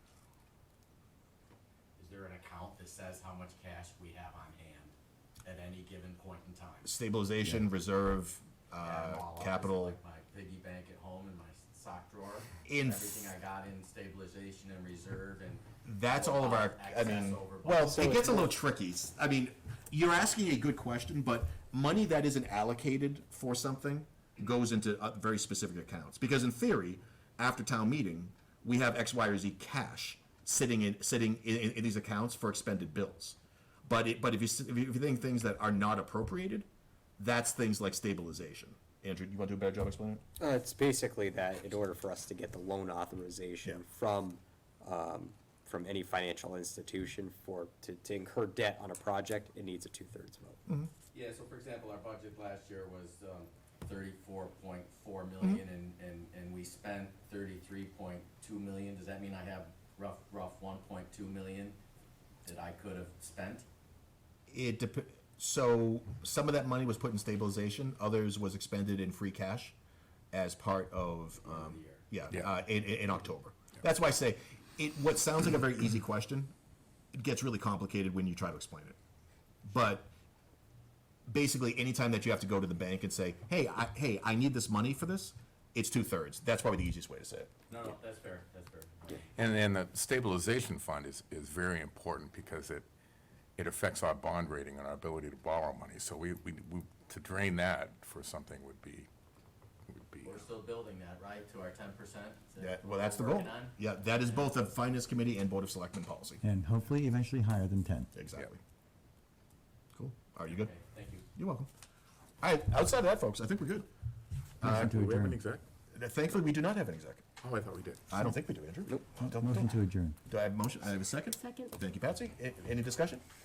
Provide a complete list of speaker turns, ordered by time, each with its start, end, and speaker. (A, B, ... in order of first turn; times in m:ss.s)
0:02.0-0:06.9 A
0:06.8-0:10.0 B
0:08.8-0:18.0 A
0:12.6-0:13.3 B
0:15.8-0:36.7 B
0:17.8-0:18.5 C
0:37.2-0:40.2 B
0:40.4-0:50.6 C
0:51.1-1:01.8 A
1:02.4-1:03.7 A
1:04.5-1:09.8 B
1:10.3-1:16.5 B
1:11.4-1:12.1 A
1:17.1-1:19.0 B
1:19.6-1:20.1 B
1:21.3-1:27.5 B
1:27.7-1:29.3 A
1:29.3-1:32.9 D
1:33.6-1:39.1 D
1:39.9-1:40.5 D
1:40.2-1:44.5 A
1:42.6-1:46.4 B
1:46.4-1:48.1 E
1:48.1-1:48.6 B
1:50.0-1:50.7 B
1:50.4-1:51.3 A
1:51.4-1:51.7 B
1:52.4-1:53.9 B
1:54.6-1:55.4 E
1:54.6-1:55.6 D
1:55.9-1:57.3 B
1:57.4-1:58.0 D
1:58.1-2:03.2 B
1:59.2-2:00.2 E